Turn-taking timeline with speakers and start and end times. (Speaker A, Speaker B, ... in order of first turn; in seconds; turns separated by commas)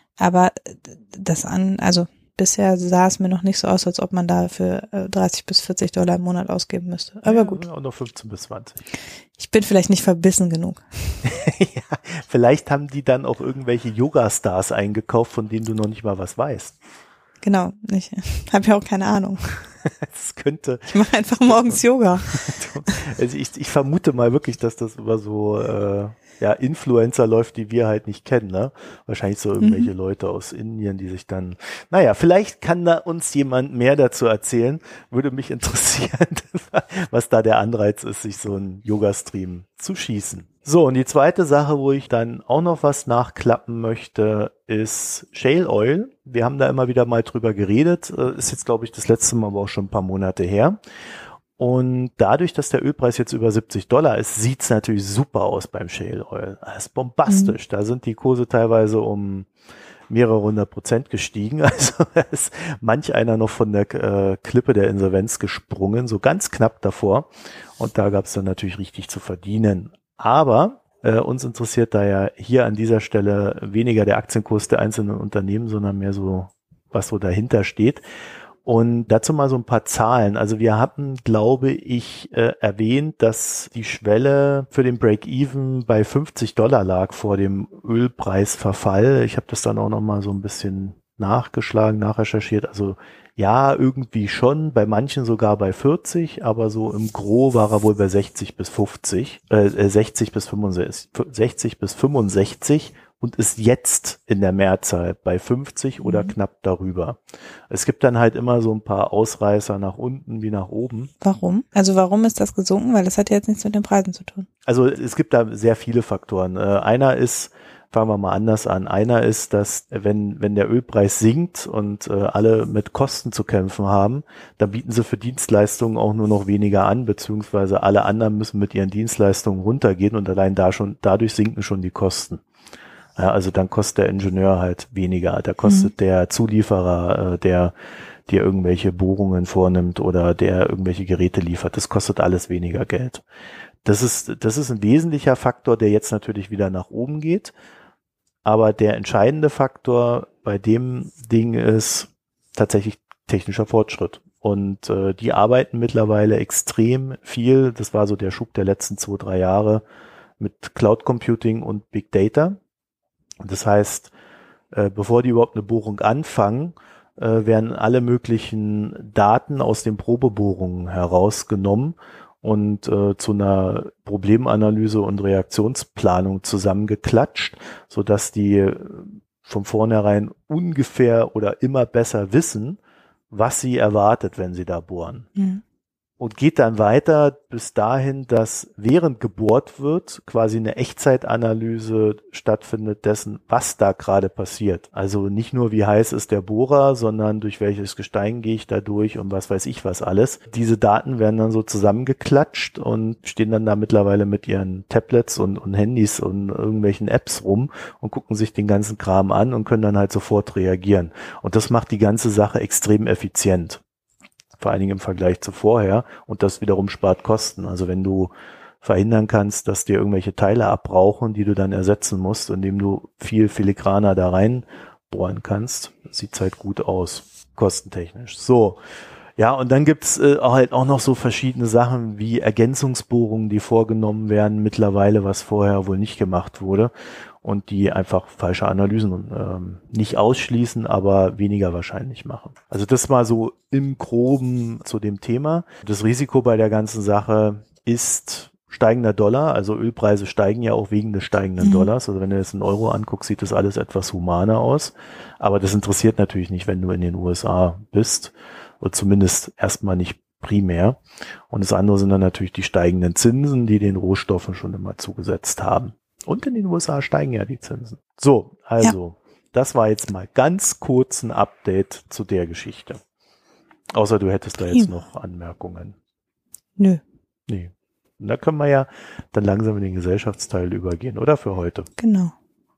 Speaker A: 0.2-7.6, Speaker B: 7.2-8.8, Speaker A: 9.4-10.8, Speaker B: 11.2-16.8, Speaker A: 17.4-19.4, Speaker B: 19.9-50.8, Speaker A: 20.9-22.4, Speaker A: 29.6-29.9, Speaker B: 51.6-59.5, Speaker A: 57.3-57.6, Speaker B: 60.1-78.0, Speaker B: 78.7-111.1, Speaker A: 106.0-106.3, Speaker A: 111.2-114.5, Speaker B: 114.7-132.4, Speaker B: 133.2-137.7, Speaker A: 135.6-135.9, Speaker B: 138.3-143.2, Speaker B: 143.8-147.5, Speaker B: 148.4-159.8, Speaker B: 160.4-162.6, Speaker B: 163.4-164.1, Speaker B: 164.7-182.8, Speaker B: 183.3-185.3, Speaker A: 185.4-185.6, Speaker B: 186.2-213.8, Speaker B: 214.6-228.8, Speaker B: 229.4-236.9, Speaker B: 237.4-261.0, Speaker A: 251.6-251.9, Speaker B: 261.5-273.0, Speaker B: 273.9-276.0, Speaker B: 277.5-281.9, Speaker A: 282.0-282.3